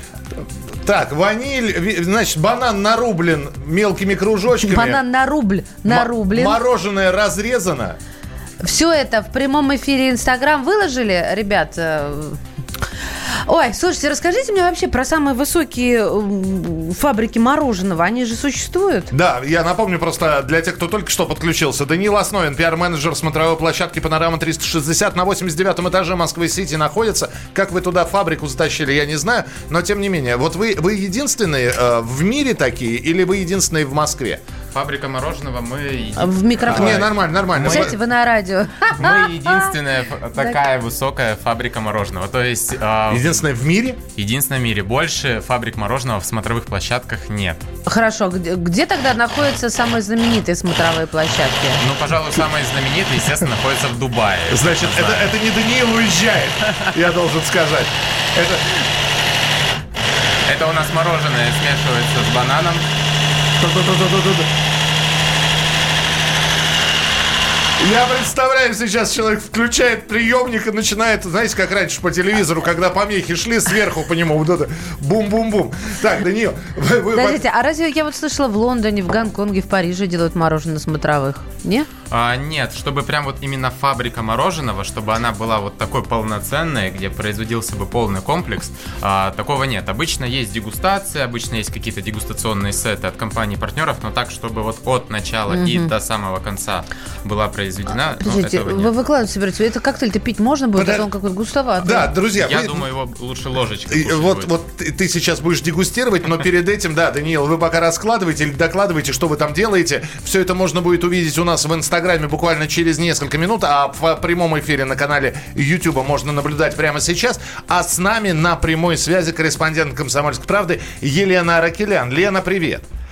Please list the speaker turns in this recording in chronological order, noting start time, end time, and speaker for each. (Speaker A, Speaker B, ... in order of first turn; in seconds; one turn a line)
Speaker A: 0.3-5.0
Speaker B: 4.6-6.6
Speaker A: 5.8-8.0
Speaker B: 8.6-12.4
Speaker B: 13.5-19.1
Speaker A: 19.1-34.4
Speaker C: 34.7-37.9
Speaker B: 36.2-37.1
Speaker A: 36.7-37.9
Speaker B: 37.6-39.7
Speaker C: 39.0-43.4
Speaker A: 43.1-44.0
Speaker C: 44.1-47.6
Speaker B: 47.9-51.8
Speaker C: 51.8-55.3
Speaker A: 54.5-58.8
Speaker C: 60.5-62.8
Speaker A: 63.6-64.5
Speaker A: 67.8-77.4
Speaker B: 77.1-81.9
Speaker C: 82.1-98.9
Speaker B: 95.5-95.9
Speaker B: 98.2-102.1
Speaker A: 100.8-101.0
Speaker A: 101.8-102.8
Speaker C: 102.4-104.5
Speaker A: 103.9-122.8